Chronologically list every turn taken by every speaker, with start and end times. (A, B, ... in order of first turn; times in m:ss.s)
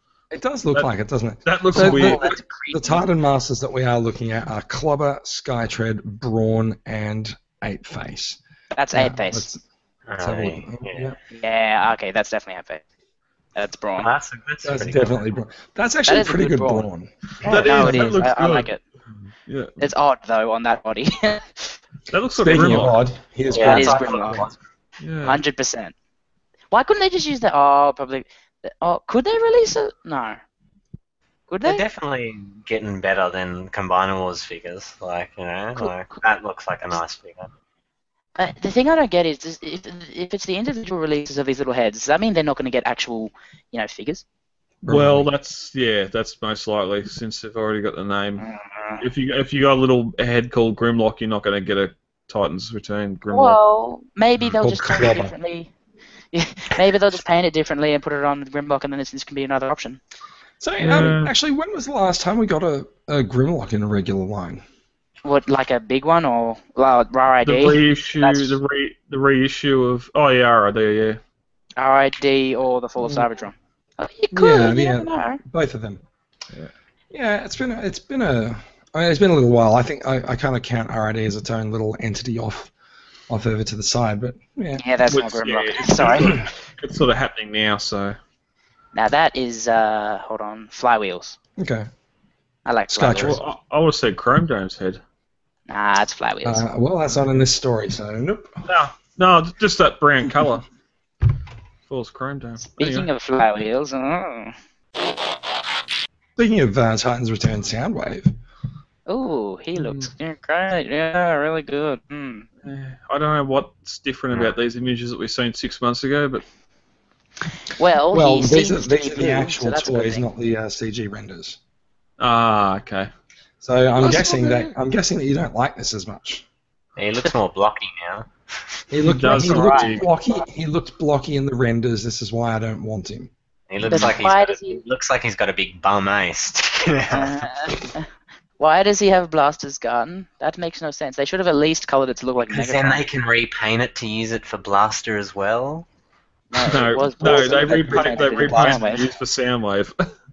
0:00.3-0:08.4 A
0:01.4-0:02.4 B
0:01.7-0:03.0 C
0:08.8-0:09.5 C
0:08.9-0:09.6 A
0:10.1-0:11.1 D
0:10.2-0:11.2 A
0:11.3-0:12.8 C
0:13.6-0:14.1 C
0:14.0-0:15.2 D
0:14.6-0:18.2 A
0:16.1-0:16.8 C
0:17.4-0:18.7 B
0:17.5-0:18.8 C
0:19.5-0:19.8 B
0:19.8-0:21.8 C
0:22.1-0:23.0 B
0:22.4-0:24.4 A
0:23.5-0:24.6 D
0:23.5-0:24.5 C
0:25.0-0:25.4 B
0:25.2-0:25.9 C
0:26.7-0:30.4 C
0:31.5-0:31.8 C
0:31.6-0:37.5 D
0:35.8-0:36.2 C
0:38.4-0:44.2 C
0:44.8-0:45.3 A
0:44.9-0:48.5 B
0:48.4-0:49.0 C
0:49.0-0:53.6 B
0:53.3-0:55.7 C
0:54.4-0:55.3 A
0:56.3-1:00.0 C
1:00.6-1:04.6 A
1:00.8-1:01.3 B
1:05.2-1:08.6 C
1:07.4-1:11.2 B
1:11.8-1:15.4 C
1:14.3-1:16.0 A
1:17.1-1:22.7 A
1:23.3-1:24.8 A
1:24.8-1:26.5 C
1:25.1-1:28.2 B
1:29.0-1:31.4 C
1:31.6-1:31.9 A
1:32.7-1:33.4 C
1:32.9-1:33.4 A
1:33.1-1:35.0 B
1:35.7-1:36.6 C
1:36.4-1:38.5 A
1:37.1-1:37.4 B
1:38.7-1:40.7 B
1:41.9-1:43.1 B
1:42.6-1:44.6 C
1:46.4-1:48.3 A
1:49.1-1:52.5 C
1:49.8-1:50.1 B
1:52.6-1:56.4 B
1:57.8-2:00.2 C
1:58.1-2:01.6 A
2:02.2-2:03.1 B
2:03.6-2:06.4 A
2:07.0-2:08.3 D
2:08.9-2:13.3 A
2:09.0-2:10.1 B
2:09.3-2:10.1 C
2:13.7-2:17.8 D
2:13.9-2:14.8 C
2:17.1-2:18.1 C
2:18.6-2:23.0 C
2:22.5-2:25.9 D
2:26.5-2:29.1 C
2:26.7-2:29.9 B
2:27.7-2:28.0 A